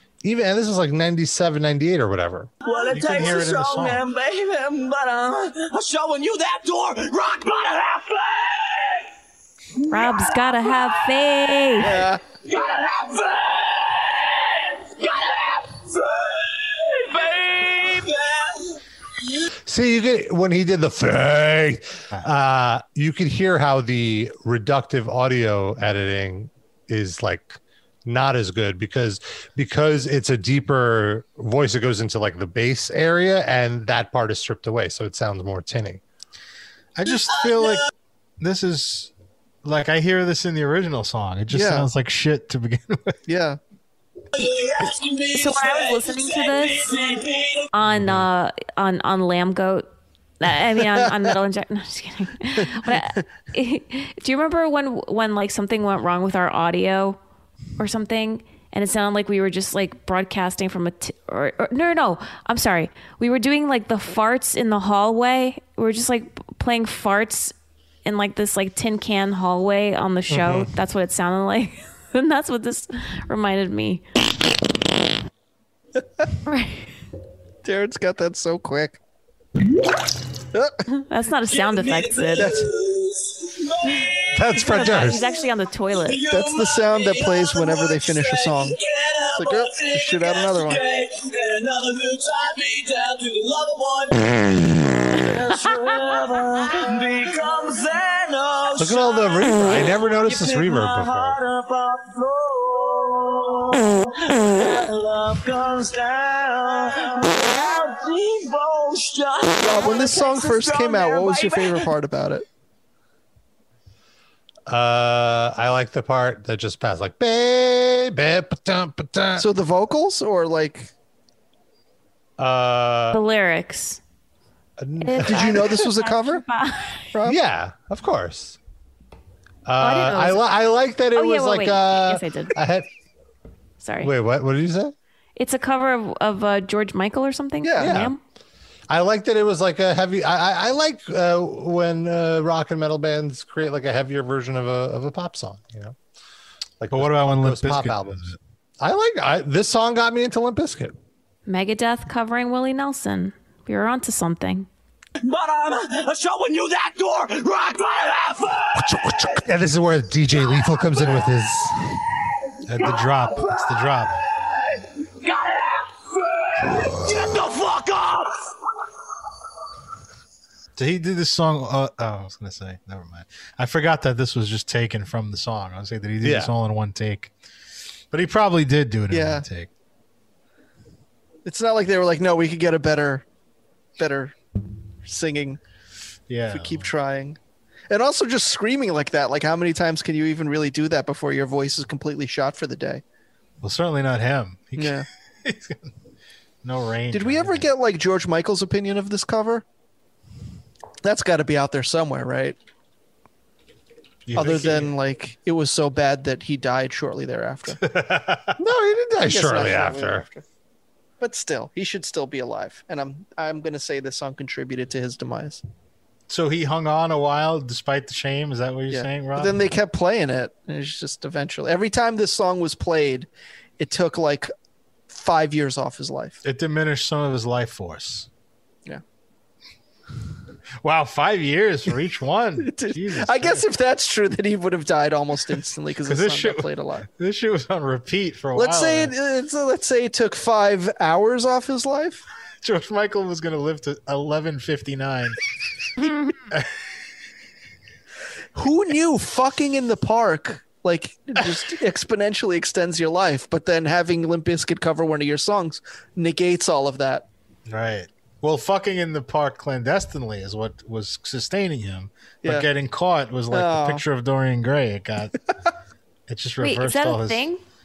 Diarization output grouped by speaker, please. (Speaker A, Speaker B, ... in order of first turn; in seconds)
Speaker A: 0.2-2.5, 19.6-36.0, 70.3-70.7, 84.3-85.2, 98.8-101.4, 114.7-119.4, 122.4-123.2, 124.8-125.7, 127.2-128.6, 129.7-132.9, 134.0-134.9, 137.8-138.1, 138.9-145.9, 146.8-148.2, 148.8-150.9, 158.8-162.1, 176.2-176.5, 208.6-210.2
Speaker B: 2.6-9.1, 9.8-18.8, 37.2-37.9, 44.3-47.7, 81.5-85.4, 86.0-111.9, 155.2-159.4, 160.6-161.2, 162.8-168.5
Speaker C: 2.9-4.0, 37.0-37.9, 38.4-39.1, 39.6-43.2, 146.9-148.3, 162.7-164.2, 170.8-177.3, 178.1-179.7, 186.3-186.9, 193.6-195.8, 196.6-197.7, 204.3-204.9, 207.8-208.5, 216.3-219.7, 226.4-228.3, 230.8-233.7, 236.1-239.1, 242.6-245.4, 257.7-265.3, 266.3-267.4
Speaker D: 9.9-12.0, 45.3-46.9, 47.7-49.9, 50.4-57.2, 57.8-67.5, 68.0-74.0, 76.4-76.9, 80.9-82.5, 84.6-86.2, 123.1-124.0, 125.0-127.1, 129.8-130.4, 131.1-132.5, 133.8-134.1, 135.3-138.2, 151.5-154.7, 266.6-267.6
Speaker E: 11.8-12.2, 41.5-41.9, 43.3-43.6, 52.6-53.2, 77.6-79.0, 80.5-80.8, 82.3-82.7, 86.3-88.8, 89.3-90.8, 109.6-112.4, 119.3-120.9, 125.2-126.4, 137.6-138.0, 179.1-179.4, 181.4-183.2, 184.0-184.3, 185.0-185.6, 186.5-187.4, 187.9-193.0, 194.8-195.1, 197.1-199.6, 201.0-202.6, 204.3-207.8, 209.2-210.4, 211.2-215.6, 218.9-224.5, 225.1-226.4, 232.6-237.1, 238.6-242.2, 248.6-257.2, 263.5-264.0